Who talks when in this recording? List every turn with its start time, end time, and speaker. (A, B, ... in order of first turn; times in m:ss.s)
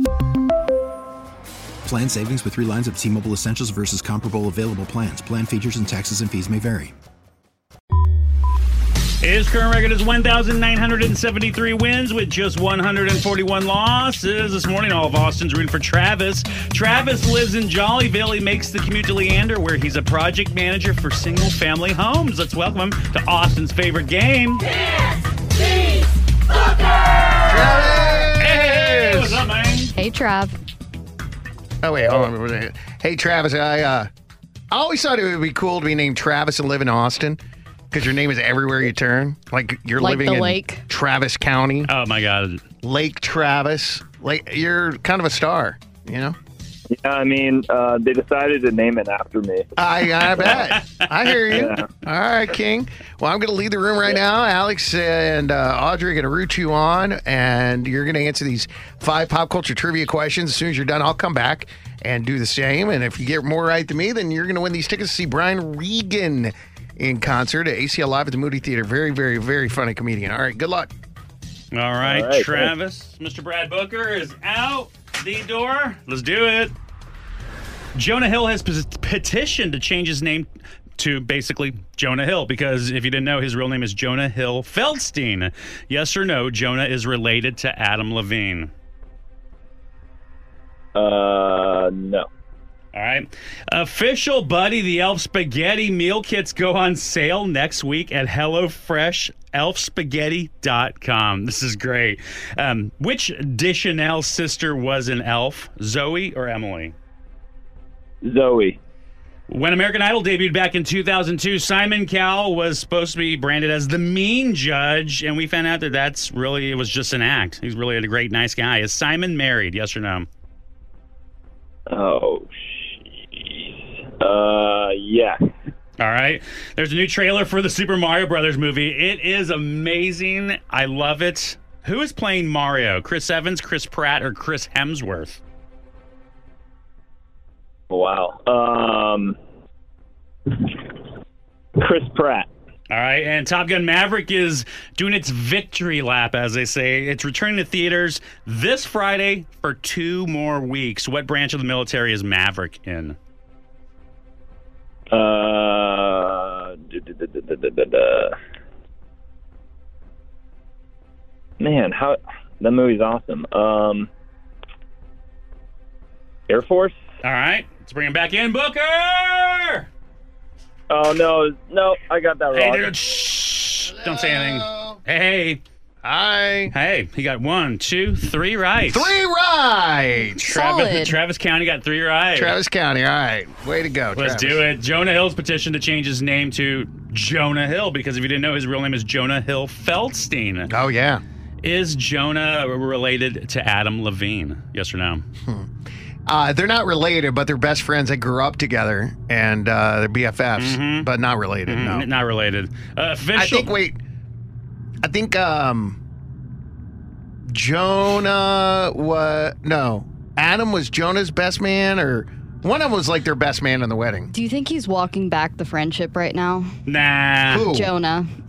0:01.8-0:06.9 A
0:09.2-0:24.7 B
0:27.5-0:29.4 C
0:28.4-0:30.0 B
0:30.0-0:30.5 D
0:31.8-0:34.1 C
0:34.7-0:37.4 C
0:37.9-0:41.9 C
0:40.0-0:40.8 D
0:41.9-0:42.6 B
0:42.8-0:46.4 C
0:46.9-0:49.7 E
0:49.8-1:10.9 C
0:50.3-0:51.7 B
0:51.5-0:51.9 E
1:11.7-1:16.8 B
1:12.0-1:12.7 E
1:18.0-1:28.7 B
1:31.0-1:32.3 E
1:32.9-1:47.0 B
1:48.2-1:48.8 E
1:49.5-2:00.3 B
2:01.9-2:05.5 E
2:06.0-2:15.4 B
2:17.9-2:19.4 E
2:20.5-2:21.0 E
2:21.8-2:22.5 E
2:22.9-2:33.2 B
2:35.1-2:38.4 E
2:41.6-2:44.1 E
2:46.5-2:47.0 E
2:47.2-2:49.9 B
2:50.9-2:53.0 E
2:52.5-2:55.6 B
2:53.8-2:55.0 C
2:56.0-2:56.8 C
2:56.7-2:59.2 B
2:58.8-3:00.4 C
3:00.4-3:02.6 B
3:00.4-3:01.2 D
3:02.4-3:04.7 C
3:04.2-3:10.7 B
3:10.7-3:11.2 C
3:11.6-3:15.2 B
3:16.3-3:22.1 C
3:20.6-3:21.1 B
3:21.6-3:23.7 B
3:23.3-3:24.0 C
3:25.0-3:26.0 C
3:27.5-3:34.3 C
3:34.3-3:36.7 D
3:36.9-3:37.7 B
3:37.5-3:38.0 C
3:37.7-3:38.3 D